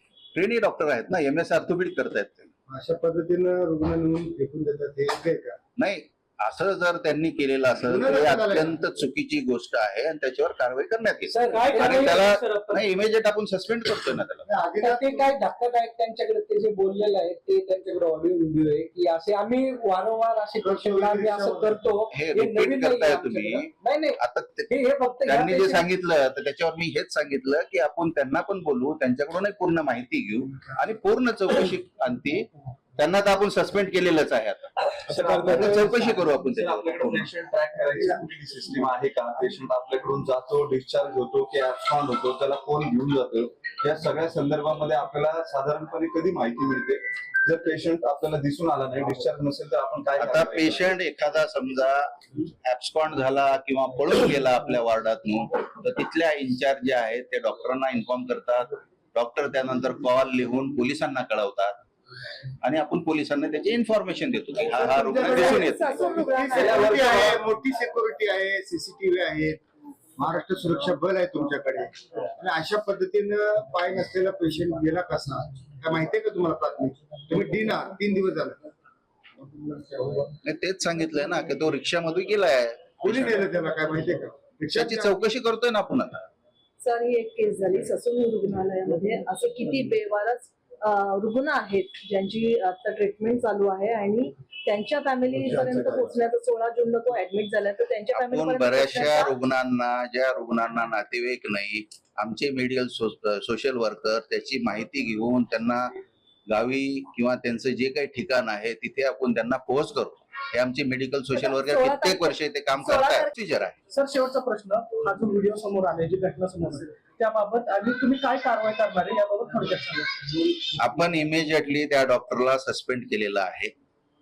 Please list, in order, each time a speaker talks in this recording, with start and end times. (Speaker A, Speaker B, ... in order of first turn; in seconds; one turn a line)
Speaker A: 0.3-2.5
Speaker B: 2.7-5.6
Speaker A: 5.8-14.4
Speaker B: 7.8-8.8
Speaker C: 11.3-12.8
Speaker B: 14.4-15.3
Speaker C: 14.8-25.9
Speaker B: 20.6-21.8
Speaker A: 22.1-24.7
Speaker A: 25.2-34.9
Speaker C: 35.1-36.0
Speaker D: 35.1-50.8
Speaker A: 35.5-37.3
Speaker A: 50.2-61.8
Speaker A: 62.6-65.9
Speaker B: 64.7-69.6
Speaker E: 65.2-67.2
Speaker D: 66.5-67.3
Speaker B: 70.2-78.6
Speaker B: 79.4-80.3
Speaker A: 80.4-83.5
Speaker B: 83.0-85.2
Speaker A: 84.7-86.2
Speaker E: 86.8-99.3
Speaker A: 98.1-105.9
Speaker A: 106.5-113.8
Speaker E: 111.3-113.3
Speaker F: 113.9-120.3
Speaker A: 120.7-123.7